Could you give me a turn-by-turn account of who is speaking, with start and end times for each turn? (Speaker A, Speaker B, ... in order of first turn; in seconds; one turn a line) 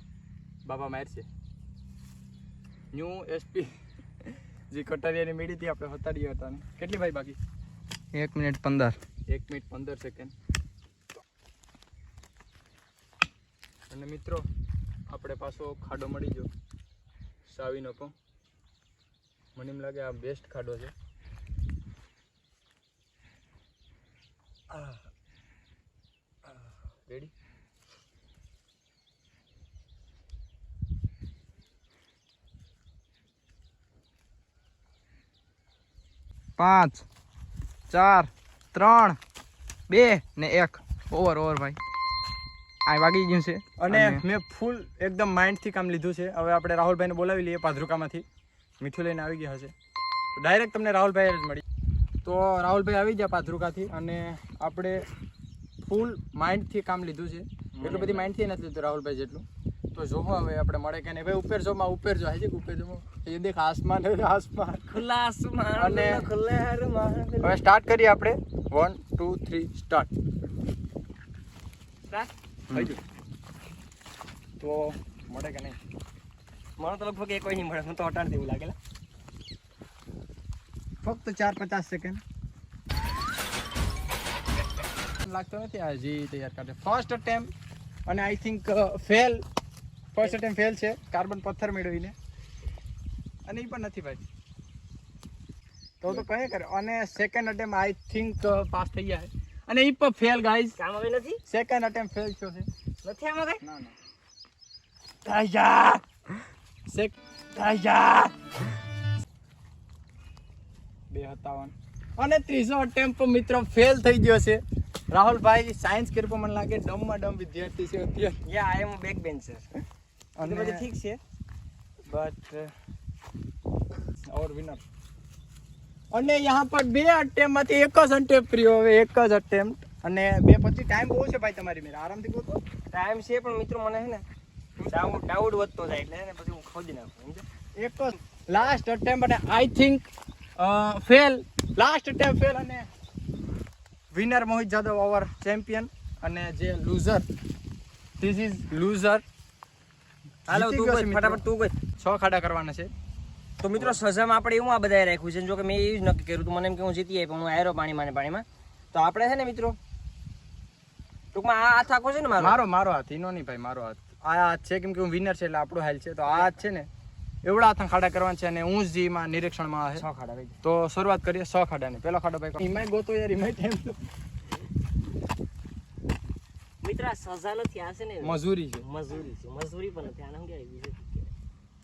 Speaker A: 0.6-1.3
Speaker A: 2.9-3.7
Speaker A: 4.2-7.4
Speaker B: 8.1-9.0
Speaker A: 9.3-10.3
Speaker A: 13.9-14.5
Speaker A: 15.1-16.5
Speaker A: 17.5-18.1
Speaker A: 19.6-20.9
Speaker A: 24.7-25.0
Speaker A: 27.0-27.3
Speaker B: 36.6-37.0
Speaker B: 37.9-39.2
Speaker B: 39.9-41.8
Speaker B: 42.9-44.2
Speaker A: 43.8-48.2
Speaker A: 48.8-49.7
Speaker A: 50.4-51.6
Speaker A: 52.2-55.1
Speaker A: 55.8-65.0
Speaker C: 57.8-58.3
Speaker C: 64.9-67.6
Speaker A: 65.8-66.2
Speaker A: 67.4-70.1
Speaker A: 72.7-73.0
Speaker A: 74.6-75.8
Speaker C: 76.8-78.8
Speaker A: 81.0-82.2
Speaker A: 85.2-87.5
Speaker A: 88.1-89.4
Speaker A: 90.1-92.1
Speaker A: 93.5-94.2
Speaker A: 96.0-100.8
Speaker C: 100.8-101.4
Speaker A: 101.5-102.7
Speaker C: 103.0-103.6
Speaker A: 103.6-104.0
Speaker C: 105.2-106.0
Speaker A: 106.9-107.2
Speaker C: 107.6-108.3
Speaker A: 111.1-114.6
Speaker A: 115.1-118.4
Speaker C: 118.5-119.7
Speaker A: 120.4-120.9
Speaker C: 120.4-121.2
Speaker A: 122.1-122.7
Speaker A: 124.3-124.8
Speaker A: 126.1-132.6
Speaker C: 132.9-134.2
Speaker A: 134.8-135.2
Speaker C: 134.9-137.4
Speaker A: 137.8-140.1
Speaker A: 140.6-142.9
Speaker A: 144.1-147.2
Speaker A: 148.2-149.2
Speaker A: 150.5-151.4
Speaker C: 150.5-151.8
Speaker A: 152.0-152.9
Speaker C: 153.6-159.8
Speaker C: 161.3-162.6
Speaker A: 162.4-166.9
Speaker A: 167.4-170.0
Speaker C: 169.9-170.6
Speaker A: 170.6-174.0
Speaker C: 176.8-181.3
Speaker A: 178.2-178.8